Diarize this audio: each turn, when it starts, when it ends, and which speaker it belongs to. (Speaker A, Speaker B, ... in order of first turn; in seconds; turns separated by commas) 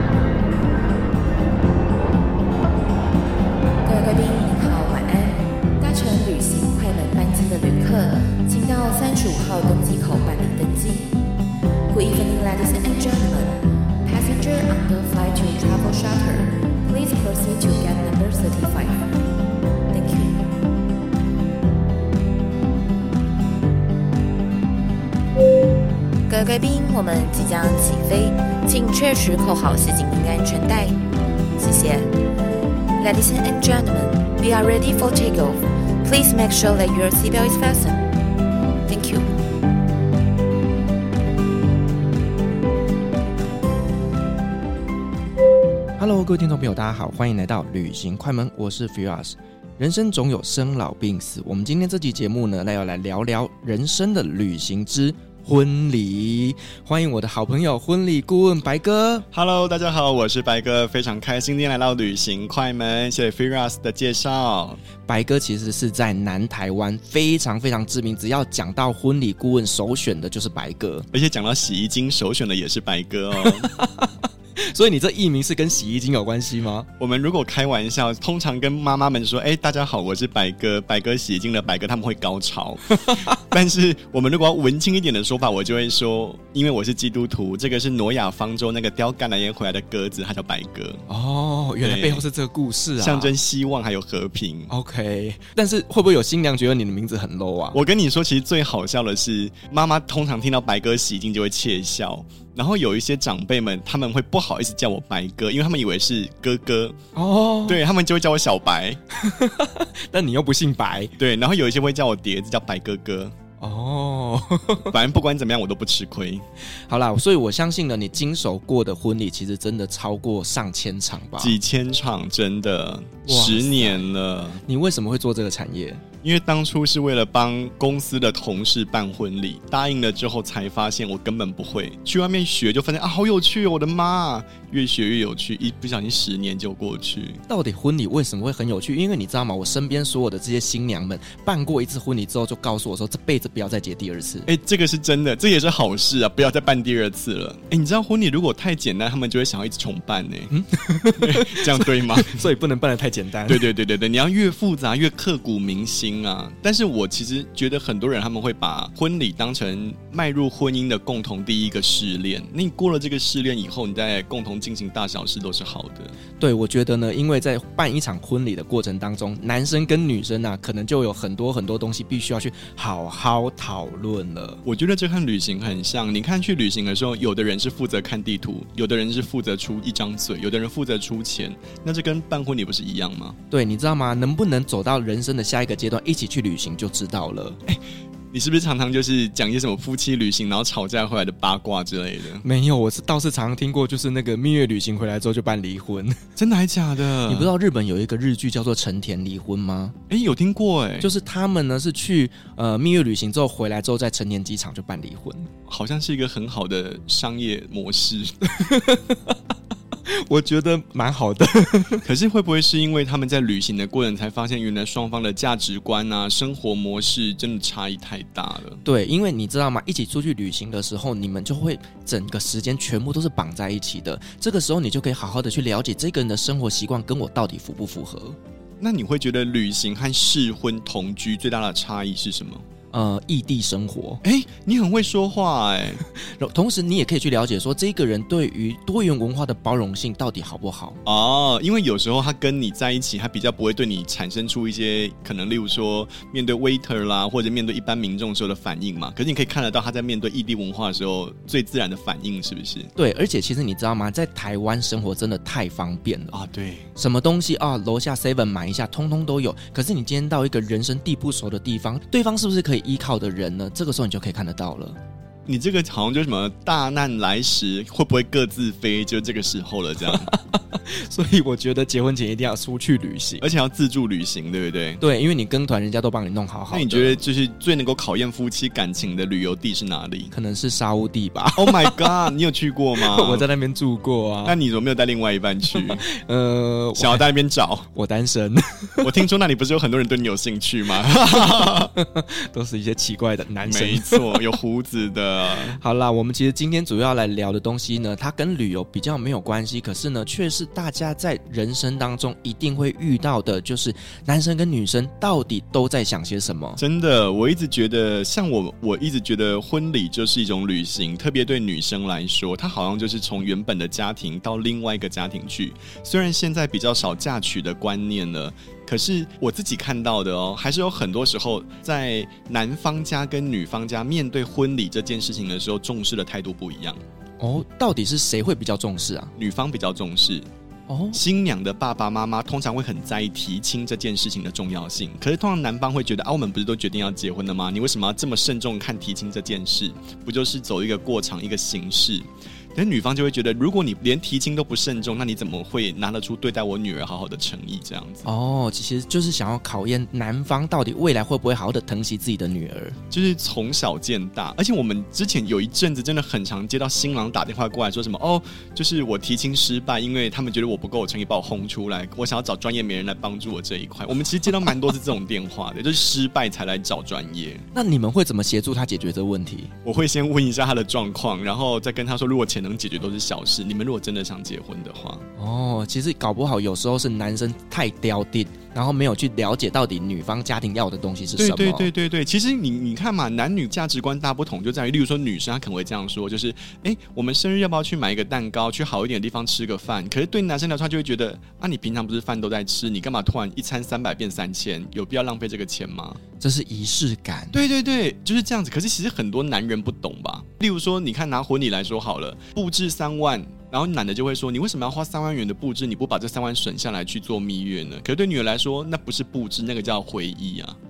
Speaker A: 3.9-11.2, Speaker A: 11.9-19.1, Speaker A: 19.9-20.4, Speaker A: 26.3-31.0, Speaker A: 31.6-32.1, Speaker A: 33.0-38.0, Speaker A: 38.9-39.4, Speaker B: 46.0-59.3, Speaker C: 59.3-64.8, Speaker B: 65.1-71.1, Speaker C: 71.1-73.7, Speaker B: 73.4-76.9, Speaker C: 77.0-91.0, Speaker B: 82.9-83.4, Speaker B: 91.1-93.3, Speaker C: 91.8-92.2, Speaker C: 93.0-94.7, Speaker B: 94.7-97.8, Speaker C: 97.7-107.0, Speaker B: 107.2-107.8, Speaker C: 107.7-109.0, Speaker B: 109.1-111.2, Speaker C: 111.2-113.3, Speaker B: 113.6-114.9, Speaker C: 114.9-116.5, Speaker B: 116.9-121.6, Speaker C: 121.4-124.6, Speaker B: 123.3-124.1, Speaker B: 124.7-126.0, Speaker C: 126.2-137.4, Speaker B: 137.5-144.5, Speaker C: 144.5-150.5, Speaker B: 150.5-153.7, Speaker C: 151.2-152.4, Speaker C: 153.5-166.1, Speaker B: 166.4-174.6, Speaker C: 174.7-183.4, Speaker B: 183.5-187.6, Speaker C: 188.3-192.4, Speaker B: 192.4-196.2, Speaker C: 196.4-197.5, Speaker B: 197.3-200.0, Speaker C: 200.1-201.1, Speaker B: 201.0-205.5, Speaker C: 205.7-208.3, Speaker B: 208.4-209.4, Speaker B: 210.1-212.0, Speaker C: 212.0-218.8, Speaker B: 218.8-228.4, Speaker C: 228.8-232.7, Speaker B: 232.9-234.2, Speaker C: 234.2-236.0, Speaker B: 236.1-241.0, Speaker C: 241.1-252.9, Speaker B: 253.0-256.3, Speaker C: 256.3-256.9, Speaker B: 257.0-265.0, Speaker C: 265.5-270.3, Speaker B: 270.0-273.4, Speaker C: 273.4-275.0, Speaker B: 275.0-277.2, Speaker C: 276.7-280.3, Speaker B: 280.3-282.2, Speaker C: 281.6-283.5, Speaker B: 283.0-284.6, Speaker C: 284.4-286.1, Speaker B: 285.7-287.3, Speaker C: 287.0-287.9, Speaker B: 287.9-289.1, Speaker C: 289.0-291.9, Speaker B: 291.5-294.4, Speaker C: 293.6-295.8, Speaker B: 295.8-306.8, Speaker C: 306.8-327.0, Speaker B: 327.4-329.3, Speaker C: 329.4-330.5, Speaker B: 330.9-331.2, Speaker C: 331.1-348.3, Speaker B: 348.2-353.0, Speaker C: 353.1-367.7, Speaker B: 367.7-369.7, Speaker C: 369.9-375.3, Speaker B: 375.4-381.9, Speaker C: 381.4-396.2, Speaker B: 396.4-397.6, Speaker C: 397.5-410.8